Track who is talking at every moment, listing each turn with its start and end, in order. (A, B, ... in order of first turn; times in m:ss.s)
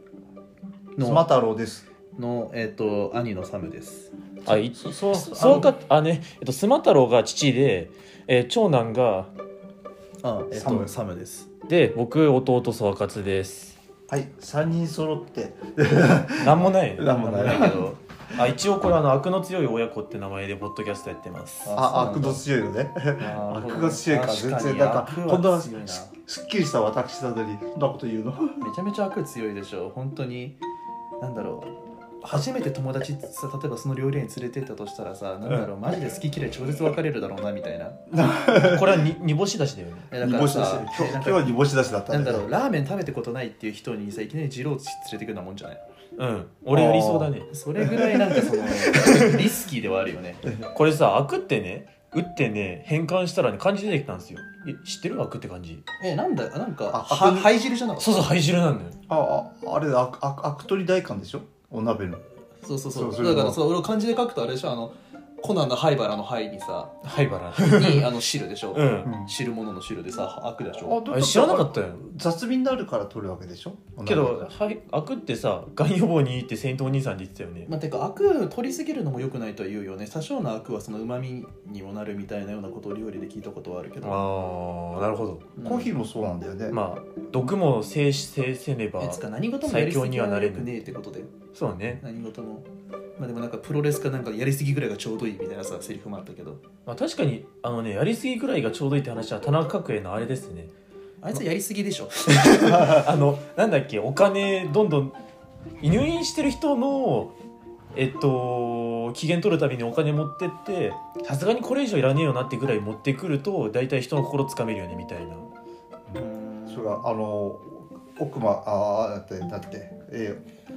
0:01.0-0:01.3 A
0:01.0-0:01.8 B
0:02.2-0:04.1 A
0:04.4-0:09.3 C
0:04.5-0:05.7 B
0:05.1-0:05.7 A
0:10.2-0:11.5 A
0:10.5-0:10.9 B
0:11.7-0:13.8 C
0:14.1-0:18.4 B
0:16.4-0:21.7 C
0:17.0-0:18.0 A
0:21.6-0:22.4 A
0:21.7-0:28.6 B
0:23.2-0:26.1 A
0:28.6-0:30.6 A
0:31.2-0:38.0 A
0:35.4-0:36.1 B
0:38.1-0:39.1 B
0:38.6-0:40.1 C
0:40.1-0:41.5 A
0:40.2-0:42.5 B
0:42.1-0:45.8 A
0:46.2-0:47.5 C
0:46.7-0:48.9 B
0:47.5-0:50.4 A
0:49.0-0:49.3 C
0:50.4-0:50.7 B
0:50.7-0:55.8 C
0:56.0-0:58.3 A
0:56.9-0:57.5 B
0:58.0-0:59.0 C
0:59.1-1:02.2 B
1:02.6-1:07.0 A
1:02.9-1:03.6 B
1:07.0-1:08.1 C
1:07.6-1:11.0 A
1:08.7-1:09.1 C
1:09.0-1:09.3 B
1:10.8-1:14.5 B
1:11.1-1:12.0 C
1:14.0-1:17.7 C
1:17.6-1:24.2 A
1:24.0-1:25.5 C
1:25.6-1:25.9 A
1:25.6-1:26.8 B
1:26.7-1:30.8 C
1:29.0-1:31.3 A
1:31.5-1:32.0 C
1:32.0-1:36.6 A
1:36.8-1:40.7 C
1:41.2-1:43.0 A
1:42.3-1:45.2 C
1:42.7-1:43.0 B
1:45.8-1:47.3 C
1:47.9-1:55.5 C
1:56.1-2:00.4 B
1:56.1-1:57.0 A